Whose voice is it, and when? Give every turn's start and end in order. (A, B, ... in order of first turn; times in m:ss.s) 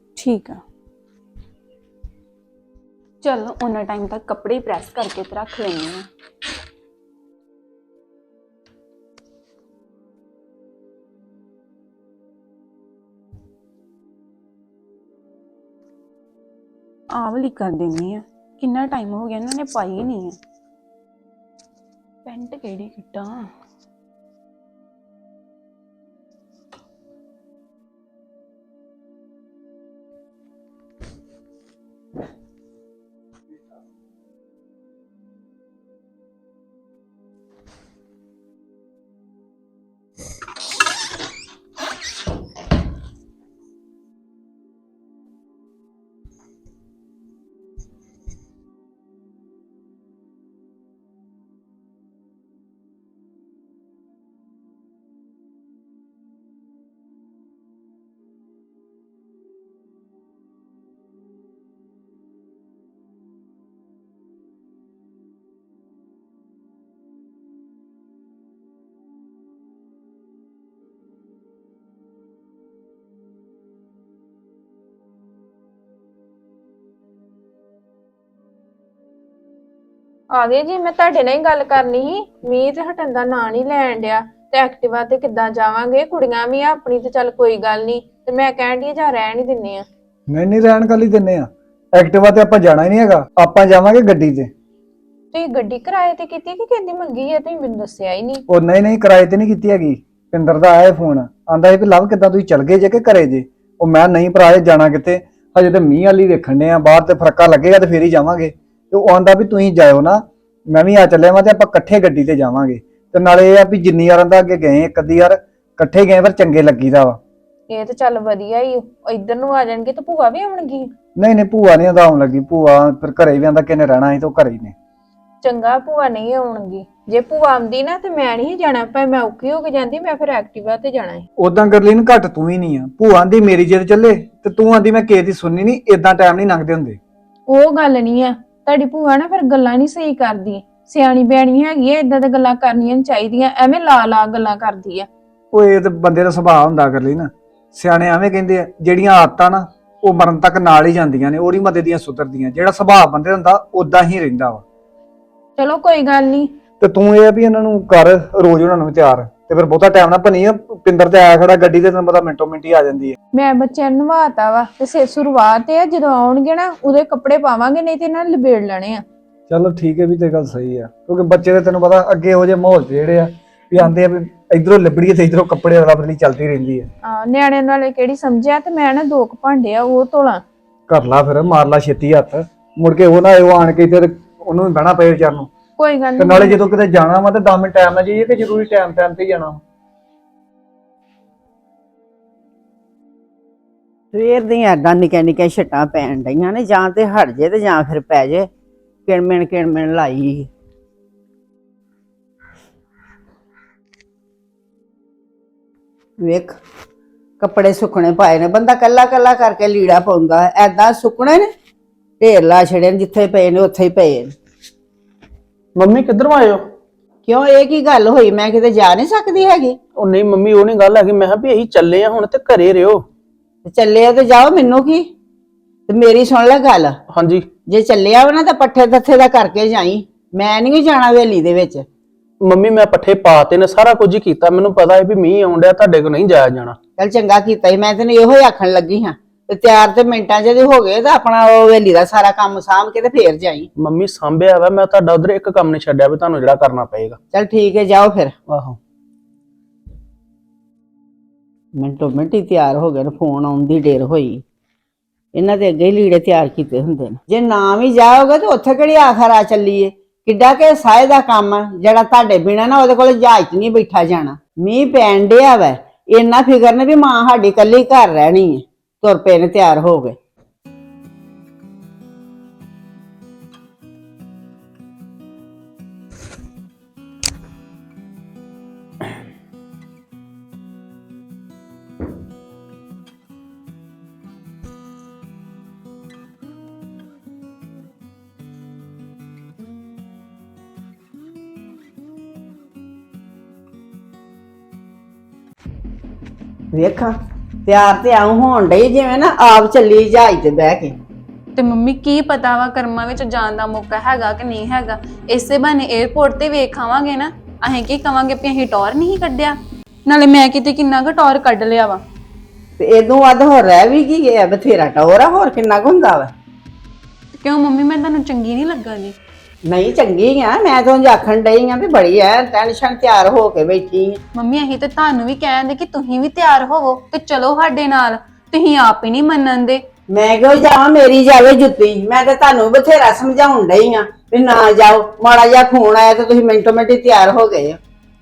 0:00.2-0:00.6 A
0:03.2-0:06.1 A
0:17.1-0:20.4 A
0:22.2-0:23.5 A
1:20.3-1:29.8 B
1:30.3-1:34.5 C
1:35.3-1:38.4 B
1:38.5-1:57.2 C
1:57.7-2:00.9 B
2:01.2-2:04.7 C
2:05.4-2:11.2 B
2:11.4-2:17.0 C
2:17.5-2:25.1 B
2:25.5-2:34.6 C
2:35.6-2:36.5 B
2:36.8-2:43.2 C
2:43.3-2:49.0 B
2:49.5-2:56.9 C
2:57.0-3:00.4 B
3:00.9-3:05.5 C
3:05.8-3:06.7 B
3:06.2-3:09.6 C
3:14.1-3:18.5 D
3:19.1-3:20.5 D
3:26.2-3:26.6 D
3:27.4-3:31.5 D
3:32.2-3:34.3 D
3:35.8-3:36.6 E
3:37.3-3:39.8 D
3:40.0-3:43.0 E
3:43.7-3:45.1 D
3:45.9-3:47.0 D
3:47.1-3:47.5 E
3:47.7-3:51.8 D
3:52.4-3:56.8 E
3:57.0-4:03.7 D
4:03.8-4:07.2 E
4:07.3-4:08.3 D
4:08.5-4:08.8 E
4:11.8-4:14.4 D
4:15.3-4:30.2 D
4:56.7-4:57.1 D
4:57.7-5:01.0 D
5:01.6-5:12.0 A
5:12.8-5:16.3 D
5:17.3-5:19.2 A
5:19.6-5:24.2 D
5:24.3-5:29.8 A
5:30.1-5:37.8 D